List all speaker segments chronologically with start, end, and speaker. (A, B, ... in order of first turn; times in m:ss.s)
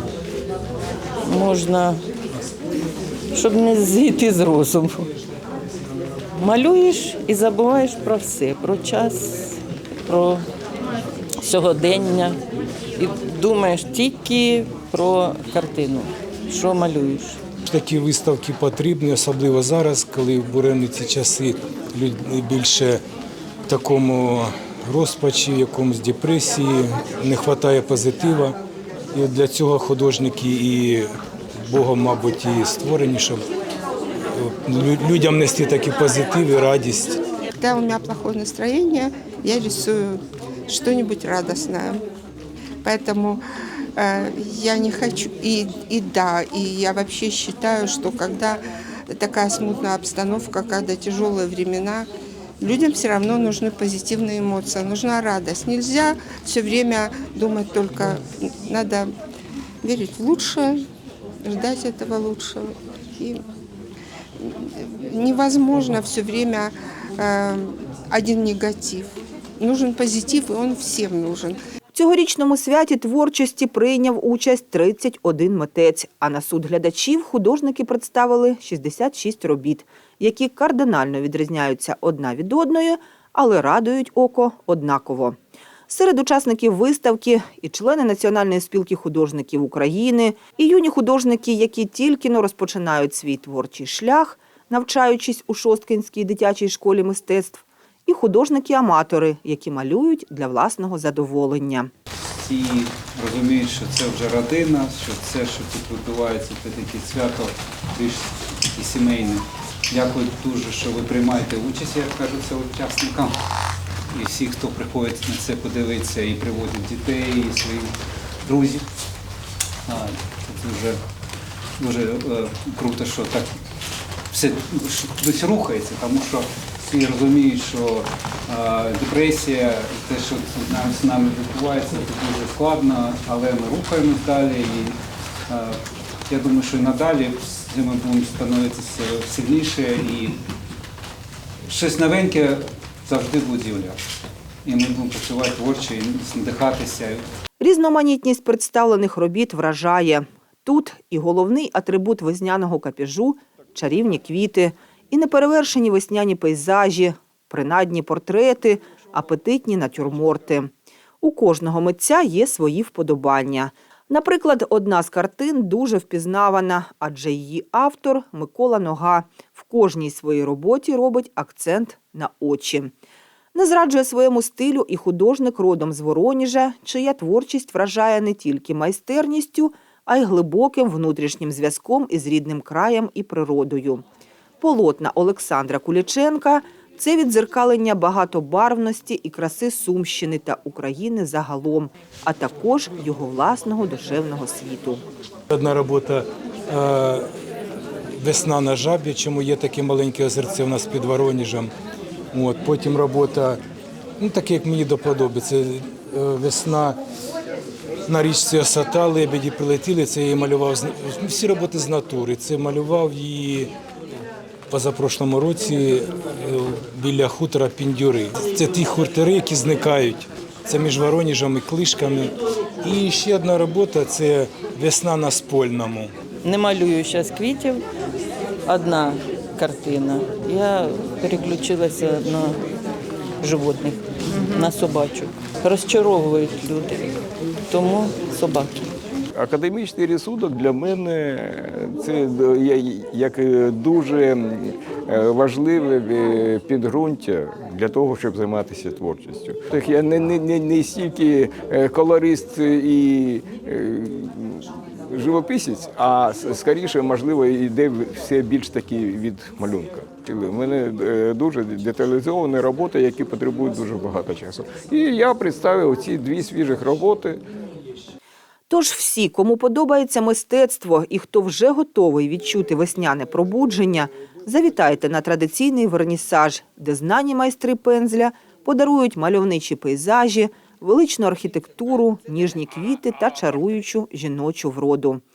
0:01.2-0:02.0 A
0:03.3-0:05.1 A
0:06.3-0:10.4 A
0:11.4-0:12.4 A
0:13.0-0:17.4 A
0:17.6-0:23.0 B
0:23.7-0:28.6 B
0:29.1-0:31.1 B
0:31.7-0:33.4 B
0:34.3-0:37.2 B
0:37.6-0:42.0 C
0:42.8-0:43.4 C
0:44.0-0:52.1 C
0:52.6-0:59.1 C
0:59.8-1:00.8 C
1:01.4-1:03.4 C
1:04.4-1:11.6 C
1:11.9-1:25.4 D
1:25.9-1:41.9 D
1:42.4-1:53.4 E
1:54.1-1:58.8 E
1:59.9-2:01.0 E
2:01.8-2:03.6 E
2:04.3-2:15.0 E
2:15.5-2:20.4 E
2:21.7-2:24.0 E
2:24.6-2:27.2 E
2:27.6-2:40.7 D
2:41.2-2:52.9 D
2:53.5-3:04.0 D
3:04.6-3:15.0 D
3:15.5-3:17.3 B
3:18.2-3:21.7 B
3:22.3-3:23.6 B
3:24.2-3:27.0 B
3:28.1-3:33.7 B
3:34.7-3:46.1 B
3:46.4-3:47.8 A
3:48.6-3:52.6 A
3:53.4-3:57.1 A
3:54.3-3:54.7 D
3:57.7-3:58.8 A
3:59.3-4:27.4 F
4:28.7-4:45.2 D